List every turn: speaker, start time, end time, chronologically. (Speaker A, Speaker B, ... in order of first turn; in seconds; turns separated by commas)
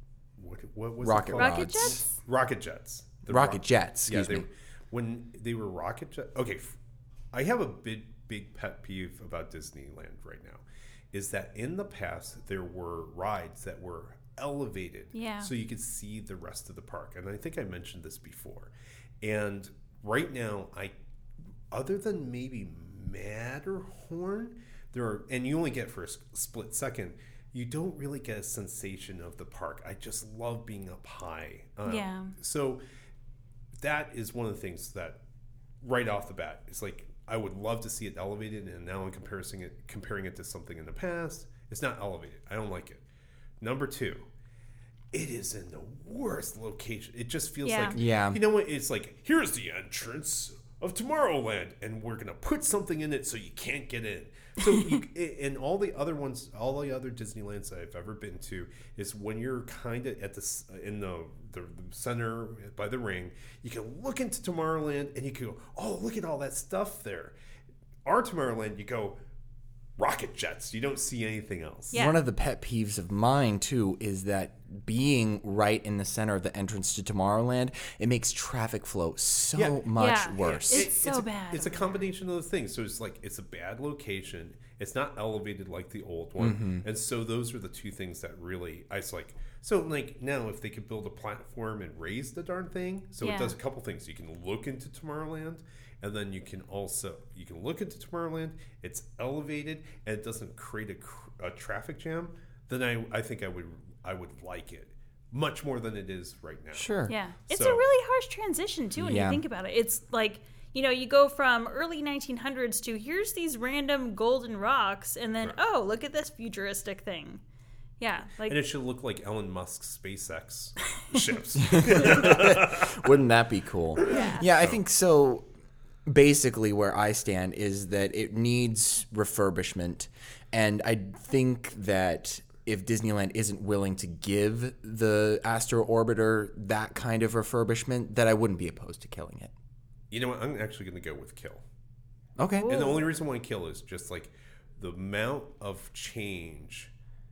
Speaker A: 0.4-6.8, Speaker B: 1.0-2.0, Speaker C: 1.4-2.2, Speaker B: 3.3-4.5, Speaker A: 7.3-20.9, Speaker C: 15.1-15.5, Speaker A: 21.7-32.8, Speaker C: 31.8-32.3, Speaker A: 33.8-35.2, Speaker A: 35.8-43.0, Speaker A: 43.6-44.2, Speaker A: 45.1-67.3, Speaker C: 47.6-48.0, Speaker B: 47.9-48.4, Speaker A: 68.0-69.2, Speaker A: 70.0-72.0, Speaker C: 71.9-72.2, Speaker B: 71.9-80.9, Speaker A: 79.5-106.9, Speaker C: 80.0-82.0, Speaker B: 86.4-86.8, Speaker C: 93.2-93.5, Speaker B: 106.7-107.1, Speaker C: 107.1-117.4, Speaker A: 107.5-107.8, Speaker B: 109.0-109.4, Speaker C: 118.0-118.6, Speaker A: 118.5-123.1, Speaker B: 121.6-125.5, Speaker C: 124.1-124.5, Speaker A: 124.1-124.8, Speaker B: 126.0-139.5, Speaker A: 140.1-141.6, Speaker B: 142.4-142.7, Speaker C: 142.6-143.1, Speaker A: 142.7-146.9